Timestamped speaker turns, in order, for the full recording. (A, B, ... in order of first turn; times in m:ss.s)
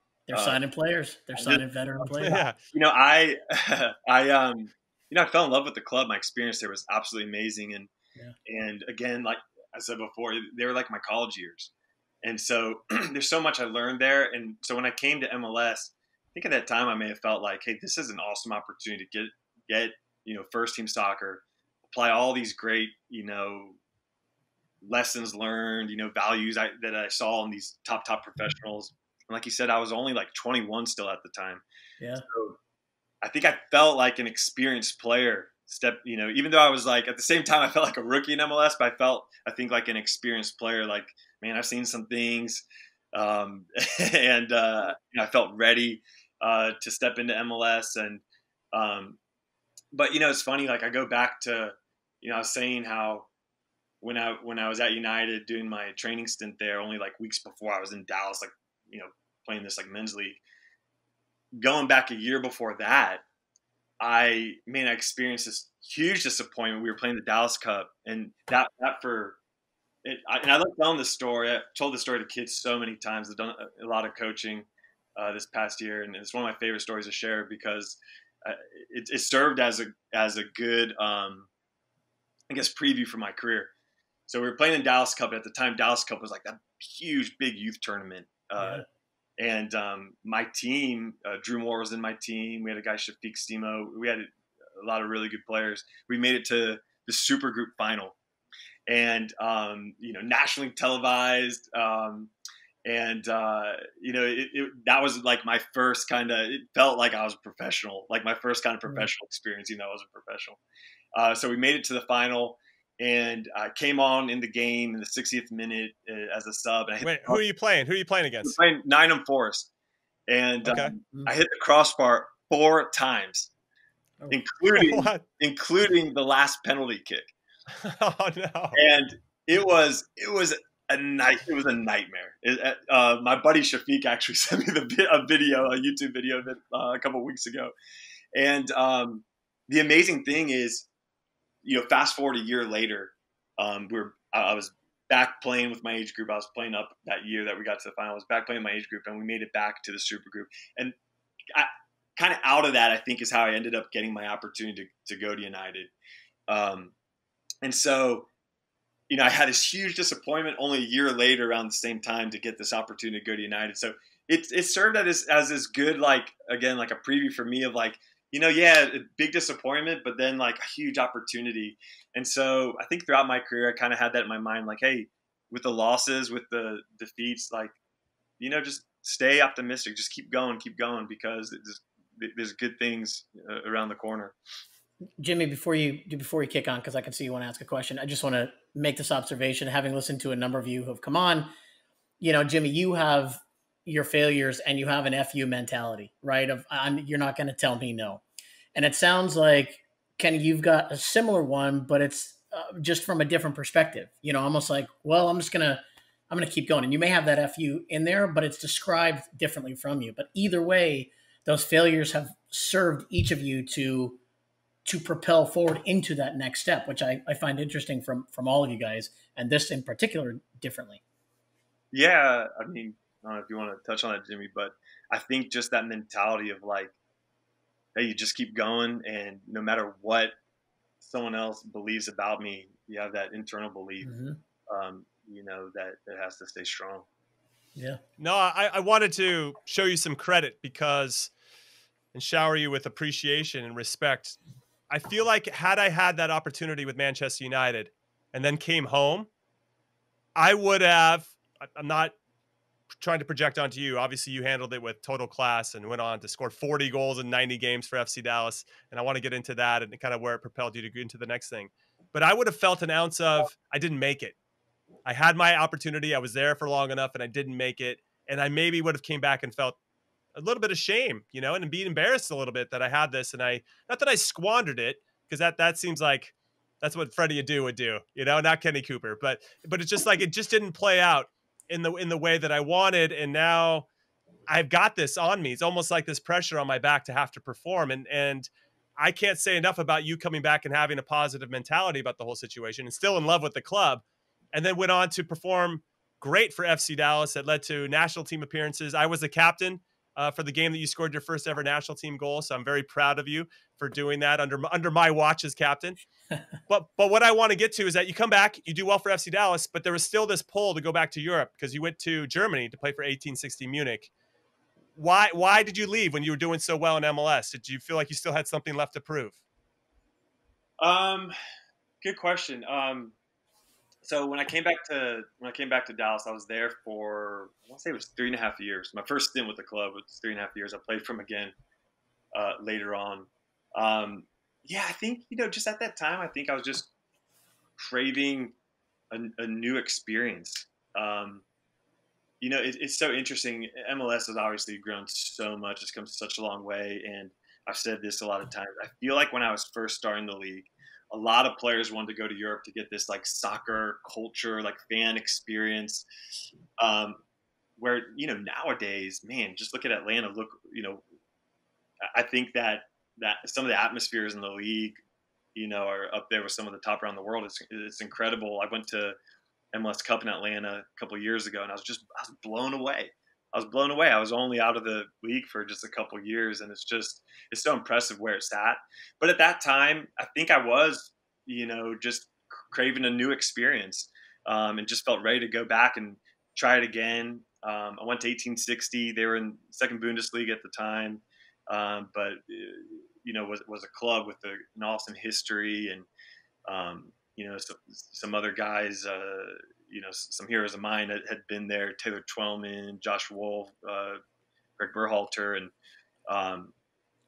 0:00.3-0:02.4 A
0:00.3-0:00.6 B
0:01.4-0:07.9 B
0:02.2-0:02.6 C
0:08.4-0:11.7 B
0:12.2-0:23.8 B
0:24.8-0:31.6 B
0:32.0-0:32.2 A
0:32.3-0:32.6 B
0:33.2-0:49.2 B
0:49.9-0:53.3 B
0:54.0-1:00.4 B
1:01.6-1:03.2 B
1:04.0-1:09.4 B
1:10.0-1:21.5 B
1:22.5-1:23.7 B
1:24.3-1:28.8 B
1:29.4-1:38.2 B
1:38.9-1:42.3 B
1:42.8-1:50.6 B
1:51.1-1:57.4 B
1:57.0-1:58.6 C
1:58.4-1:59.7 B
2:00.3-2:03.5 B
2:00.6-2:00.9 C
2:04.3-2:07.3 B
2:04.8-2:05.2 C
2:07.8-2:08.8 C
2:08.7-2:17.7 B
2:18.3-2:20.9 B
2:21.6-2:30.9 B
2:31.5-2:35.9 B
2:36.5-2:36.9 B
2:37.6-2:38.3 B
2:39.1-2:57.8 B
2:58.4-3:04.3 B
3:05.2-3:11.5 A
3:12.2-3:18.2 A
3:18.7-3:34.2 A
3:34.8-3:41.0 A
3:41.9-3:46.9 B
3:47.9-3:50.3 B
3:51.0-3:54.1 B
3:54.0-3:54.4 A
3:54.7-3:57.1 B
3:58.2-4:01.3 C
4:02.1-4:04.4 C
4:04.9-4:09.3 C
4:10.4-4:12.1 C
4:13.0-4:24.3 C
4:25.0-4:29.8 C
4:30.3-4:43.9 C
4:44.5-5:06.0 C
5:06.7-5:14.1 C
5:15.0-5:19.4 C
5:20.8-5:21.3 B
5:22.0-5:23.1 B
5:24.0-5:31.5 B
5:32.3-5:36.9 B
5:37.8-5:38.5 B
5:39.1-5:41.4 B
5:42.4-5:56.0 B
5:56.8-5:57.2 B
5:57.8-6:01.0 B
6:02.1-6:05.0 B
6:05.5-6:09.2 B
6:09.7-6:36.1 B
6:36.7-6:44.2 B
6:44.8-6:45.7 B
6:46.3-6:46.7 B